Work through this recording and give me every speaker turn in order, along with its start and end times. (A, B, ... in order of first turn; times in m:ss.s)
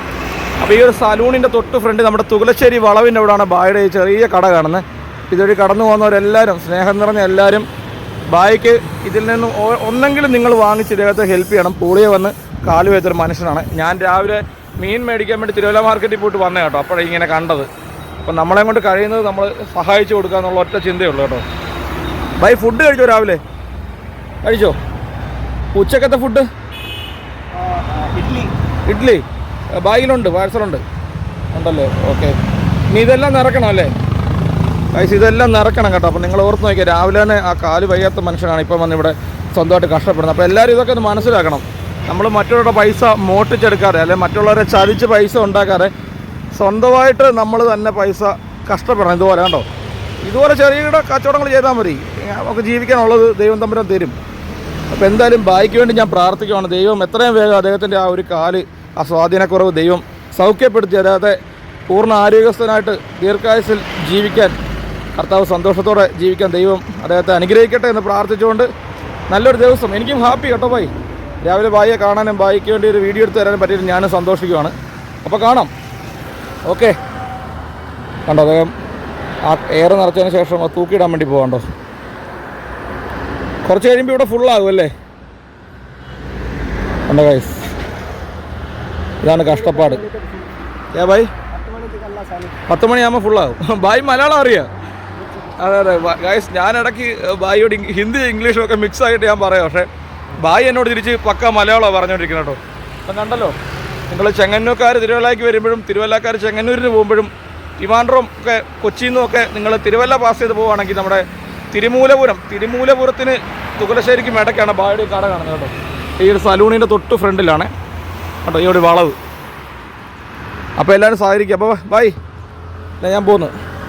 0:00.6-0:07.7 A
0:08.3-0:17.7 A
0:18.2-0:21.4 A
0:22.4-0:23.4 A
0:24.4-0:24.8 A
0:25.8-0:26.5 A
0:27.5-0:28.5 B
0:28.9-0:29.2 A
0:29.8-0:30.8 A
0:31.5-0:32.4 A
0:32.9-0:33.9 A
0:34.9-0:45.9 A
0:46.6-0:49.7 A
0:50.2-0:54.2 A
0:54.9-1:01.4 A
1:01.9-1:04.6 A
1:05.2-1:08.7 A
1:09.3-1:10.9 A
1:11.4-1:14.7 A
1:15.2-1:15.7 A
1:16.7-1:17.0 A
1:18.3-1:18.7 A
1:19.5-1:21.6 A
1:23.7-1:24.9 A
1:27.1-1:27.6 A
1:29.2-1:30.0 A
1:29.4-1:30.5 B
1:30.9-1:31.3 A
1:31.5-1:32.7 B
1:32.7-1:34.7 A
1:35.2-1:35.5 B
1:35.6-1:39.9 A
1:40.4-1:43.6 A
1:44.1-1:57.7 A
1:58.4-1:59.2 A
2:00.8-2:02.2 A
2:03.0-2:03.5 A